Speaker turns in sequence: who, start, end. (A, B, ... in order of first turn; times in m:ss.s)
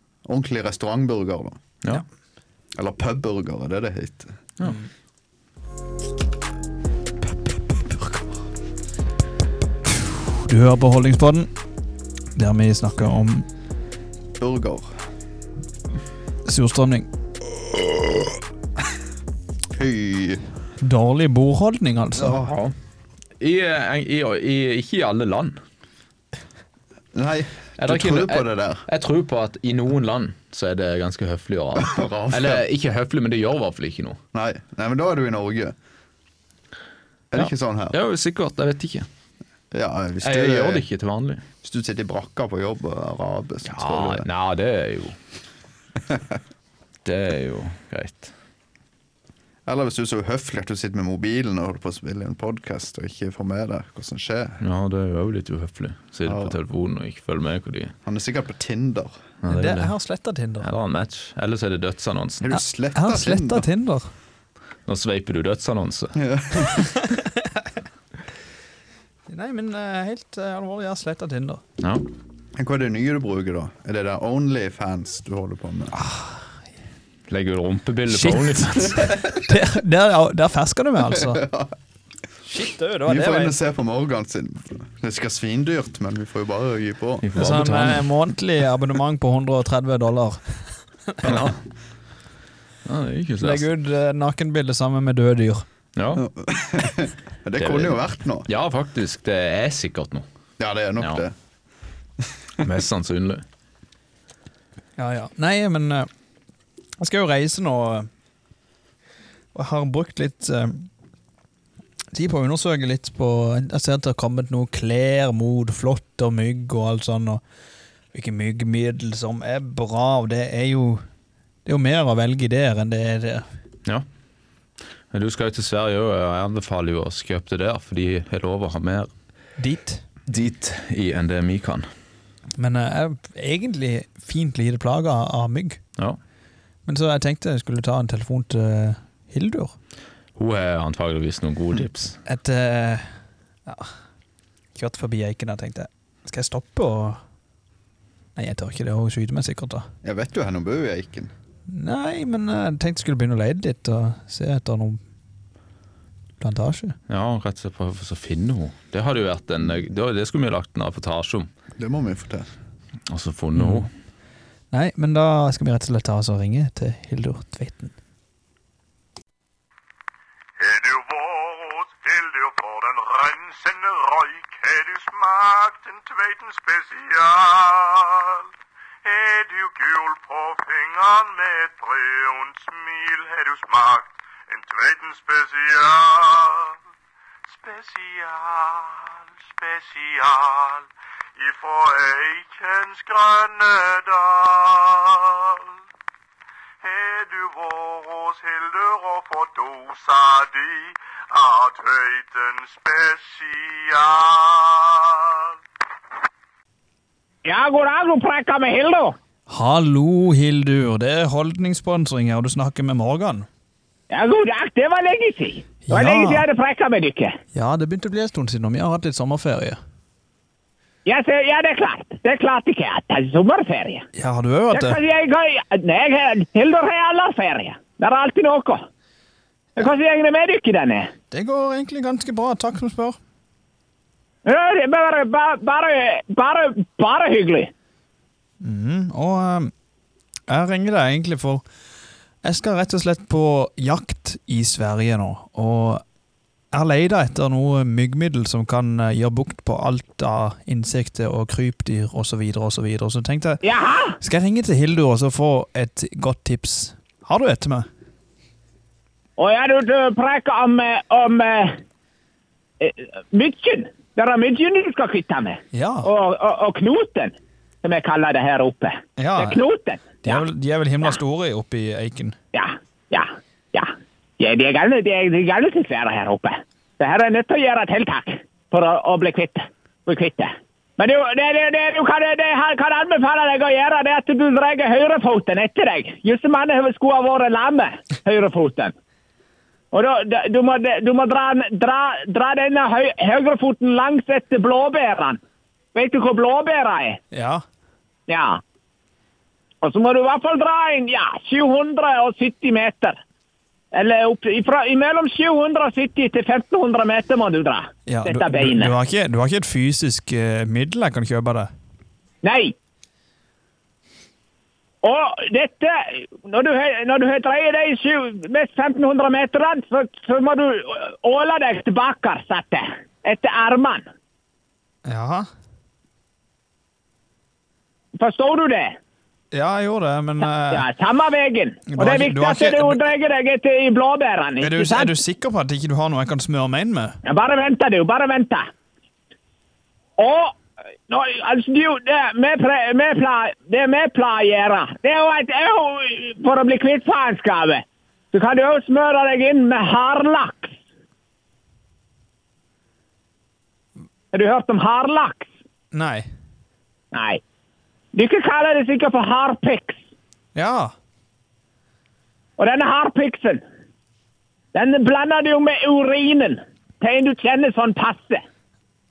0:00.2-0:01.6 A
0:02.8-0:04.4 A
0:10.0-0:11.5 B
0:12.4-0:13.5 B
0:14.4-0:14.9 A
0:16.4-0:17.1 B
0:19.7-0:20.4 A
0:20.8-0:22.4 B
0:22.2-0:22.5 A
0:22.3-0:22.7 C
0:23.4-0:25.6 C
0:27.1-0:28.8 A
0:27.8-0:34.2 C
0:31.8-0:32.6 A
0:34.3-0:35.8 A
0:37.3-0:38.0 A
0:37.4-0:39.1 C
0:39.7-0:40.8 A
0:40.2-0:41.4 C
0:41.6-0:44.3 A
0:43.7-0:45.2 C
0:47.0-0:48.3 C
0:49.7-0:54.6 A
0:54.6-0:58.0 C
0:56.3-0:56.6 A
0:58.0-0:59.2 A
0:59.4-0:59.9 C
0:59.5-1:00.7 B
1:00.6-1:02.5 C
1:02.4-1:03.7 A
1:02.5-1:04.1 B
1:04.9-1:06.7 C
1:06.2-1:07.0 A
1:09.3-1:11.6 B
1:11.8-1:12.0 C
1:12.6-1:16.0 A
1:16.0-1:16.2 B
1:17.3-1:19.2 C
1:18.1-1:21.4 B
1:21.1-1:21.7 A
1:22.4-1:23.6 B
1:23.1-1:27.2 A
1:27.2-1:28.1 C
1:27.4-1:30.4 B
1:31.2-1:31.6 C
1:32.8-1:33.7 C
1:33.4-1:35.7 B
1:36.0-1:36.2 C
1:36.2-1:38.5 A
1:37.6-1:40.2 C
1:40.6-1:41.4 A
1:42.6-1:43.4 C
1:45.0-1:46.1 B
1:47.0-1:48.1 B
1:49.5-1:50.9 B
1:52.1-1:57.4 B
1:58.1-2:01.1 B
2:01.7-2:03.5 B
2:05.1-2:09.1 C
2:09.6-2:10.0 B
2:10.3-2:11.9 C
2:12.6-2:15.8 B
2:16.9-2:19.8 B
2:20.4-2:22.2 C
2:22.2-2:23.1 B
2:23.7-2:23.9 B
2:24.8-2:27.2 B
2:28.4-2:29.9 B
2:30.0-2:31.3 A
2:31.7-2:35.0 B
2:36.4-2:37.0 B
2:37.1-2:41.5 C
2:41.8-2:42.5 A
2:43.1-2:43.9 C
2:43.6-2:43.9 B
2:44.7-2:47.9 B
2:50.6-2:58.5 D
2:59.0-3:06.8 D
3:07.5-3:15.7 D
3:16.8-3:25.5 D
3:27.4-3:29.2 E
3:29.5-3:33.5 B
3:34.1-3:37.4 E
3:35.9-3:36.5 B
3:37.5-3:39.8 B
3:41.1-3:44.1 E
3:44.2-3:45.0 B
3:44.7-3:48.8 E
3:49.8-3:51.1 E
3:51.3-3:53.2 B
3:54.4-3:57.7 E
3:58.6-3:59.7 B
4:00.5-4:01.6 B
4:02.4-4:06.0 B
4:06.7-4:13.6 B
4:13.6-4:14.2 E
4:14.2-4:17.9 B
4:19.4-4:21.8 E
4:22.8-4:30.4 E
4:25.7-4:26.1 B
4:29.2-4:29.6 B
4:30.2-4:32.4 B
4:32.5-4:48.9 E
4:49.9-4:55.4 E
4:55.9-4:57.2 E
4:57.3-4:57.6 B
4:58.3-4:58.6 E
4:59.8-5:03.2 E
5:03.9-5:08.9 E
5:08.1-5:11.7 B
5:12.4-5:12.8 E
5:15.0-5:24.0 E
5:25.1-5:25.5 B
5:28.2-5:29.0 E
5:29.5-5:30.9 B
5:30.7-5:35.1 E
5:31.9-5:33.0 B
5:34.6-5:37.2 B
5:37.2-5:38.7 E
5:40.2-5:50.7 E
5:54.3-5:55.5 E
5:55.9-5:56.3 B
5:57.1-5:57.4 E
5:58.1-6:00.0 E
6:00.6-6:00.9 B
6:02.6-6:03.6 E
6:04.7-6:08.4 E